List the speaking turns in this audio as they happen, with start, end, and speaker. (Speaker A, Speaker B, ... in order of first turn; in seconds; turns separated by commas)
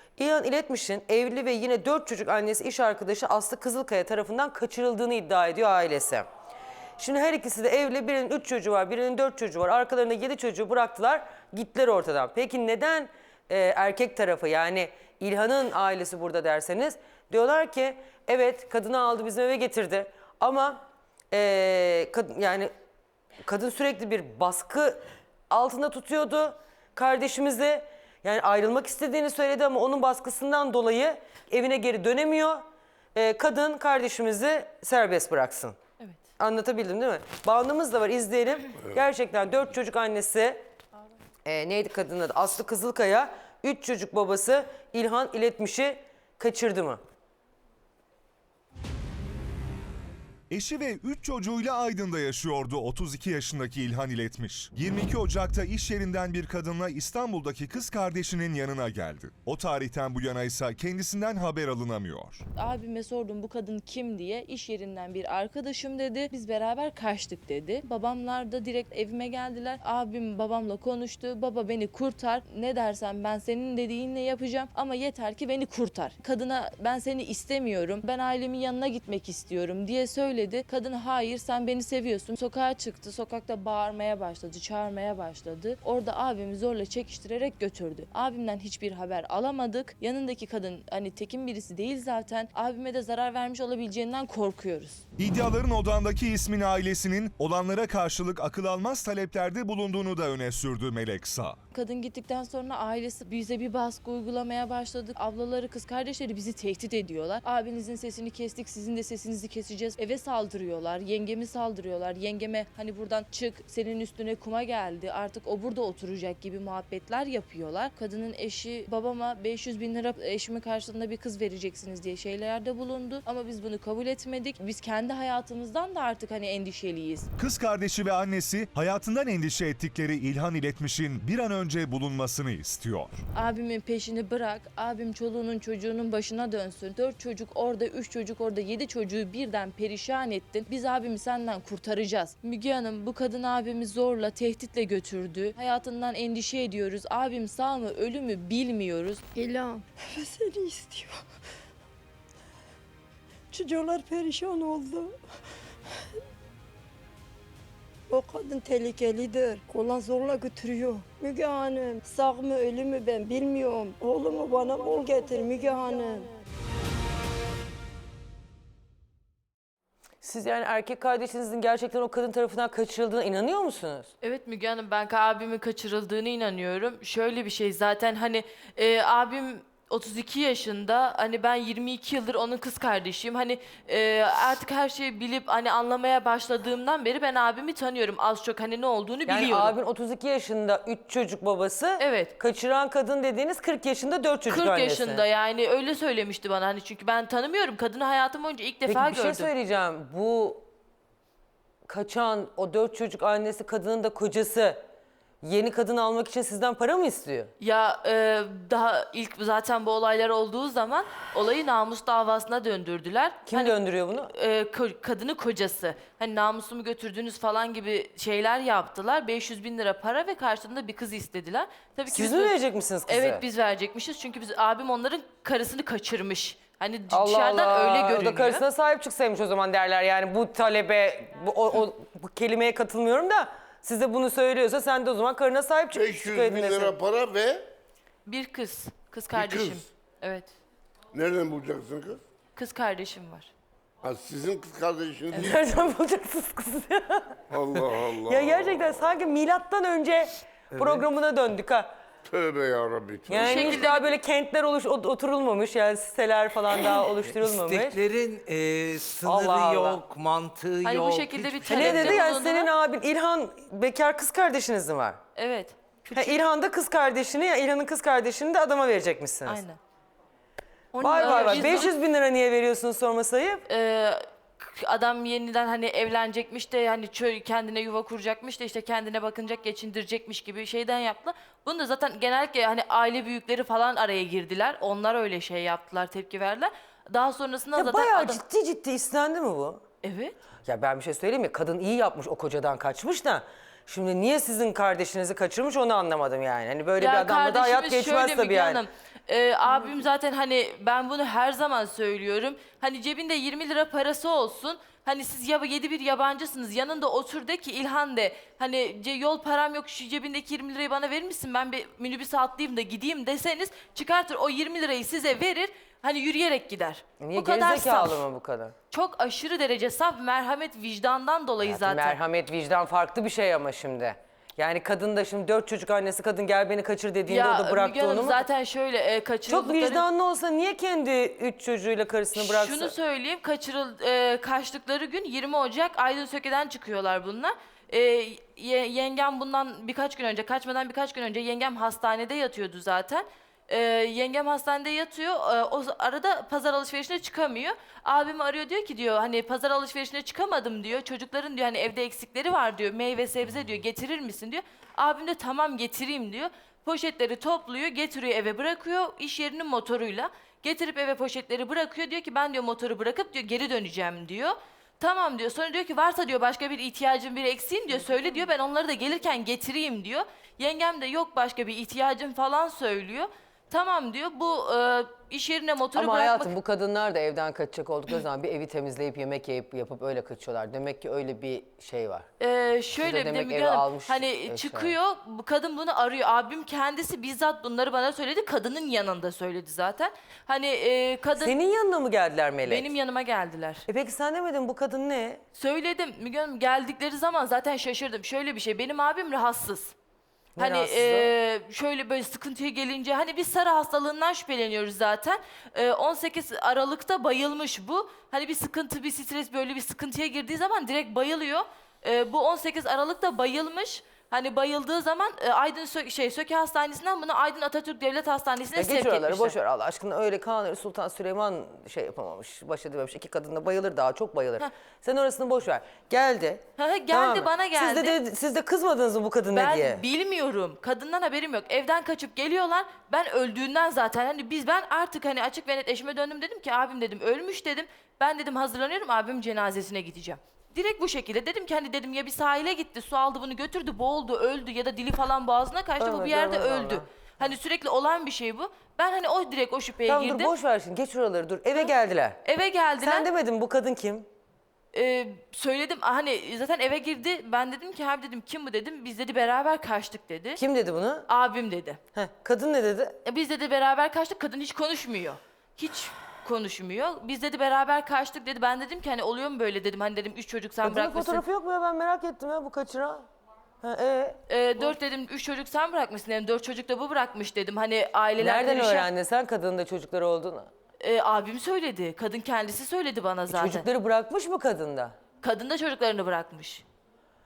Speaker A: 0.2-6.3, Speaker A: 7.0-20.8, Speaker A: 21.3-22.7, Speaker A: 23.4-32.6, Speaker A: 33.1-35.8, Speaker A: 36.4-40.6, Speaker A: 41.4-47.0, Speaker B: 50.5-62.4, Speaker C: 62.5-95.0, Speaker B: 95.2-101.6, Speaker C: 101.7-127.3, Speaker B: 127.4-133.2, Speaker C: 133.3-149.2, Speaker D: 149.3-151.2, Speaker D: 153.5-155.1, Speaker D: 158.1-166.3, Speaker A: 170.2-174.1, Speaker C: 174.2-189.8, Speaker A: 189.3-195.2, Speaker C: 192.0-192.3, Speaker C: 194.5-199.5, Speaker A: 198.8-200.6, Speaker A: 201.9-204.8, Speaker A: 205.4-207.5, Speaker C: 207.6-222.5, Speaker A: 213.4-214.3, Speaker A: 222.1-223.4, Speaker C: 223.1-228.6, Speaker A: 227.1-237.0, Speaker E: 235.9-237.7, Speaker C: 238.2-240.5, Speaker E: 239.3-239.8, Speaker E: 241.1-242.2, Speaker C: 242.6-243.5, Speaker E: 244.0-245.6, Speaker A: 245.3-247.4, Speaker E: 247.5-248.8, Speaker A: 248.1-251.9, Speaker F: 250.7-251.1, Speaker E: 252.3-253.7, Speaker A: 253.3-258.0, Speaker C: 253.3-254.1, Speaker F: 257.2-262.2, Speaker A: 259.2-260.0, Speaker C: 260.8-262.7, Speaker A: 261.6-265.2, Speaker C: 265.4-266.4, Speaker A: 266.1-269.6, Speaker C: 269.4-269.8, Speaker C: 270.9-271.9, Speaker A: 271.0-273.6, Speaker C: 273.7-288.4, Speaker A: 287.7-289.8, Speaker C: 290.0-290.3, Speaker A: 290.6-298.8, Speaker C: 297.0-318.2, Speaker A: 317.2-318.7, Speaker C: 318.9-322.2, Speaker A: 321.6-328.4, Speaker C: 327.3-330.0, Speaker A: 329.5-332.9, Speaker C: 332.3-376.5, Speaker A: 375.9-382.3, Speaker C: 382.4-391.6, Speaker A: 383.0-384.9, Speaker A: 391.4-392.9, Speaker C: 392.6-393.8, Speaker A: 393.9-395.4, Speaker C: 395.5-399.9, Speaker A: 400.6-401.3, Speaker C: 400.6-419.6, Speaker A: 418.8-430.0, Speaker C: 426.8-428.2, Speaker C: 429.5-450.5, Speaker A: 446.0-447.1, Speaker A: 450.1-452.4, Speaker C: 452.4-453.3, Speaker A: 453.0-454.3, Speaker C: 454.9-460.6, Speaker A: 460.6-461.3, Speaker C: 461.3-462.0, Speaker A: 462.1-463.2, Speaker C: 463.2-471.4, Speaker A: 470.8-473.2, Speaker A: 473.8-474.4, Speaker C: 474.5-479.1, Speaker A: 478.4-480.7, Speaker C: 481.0-483.9, Speaker A: 483.5-485.1, Speaker C: 485.4-486.8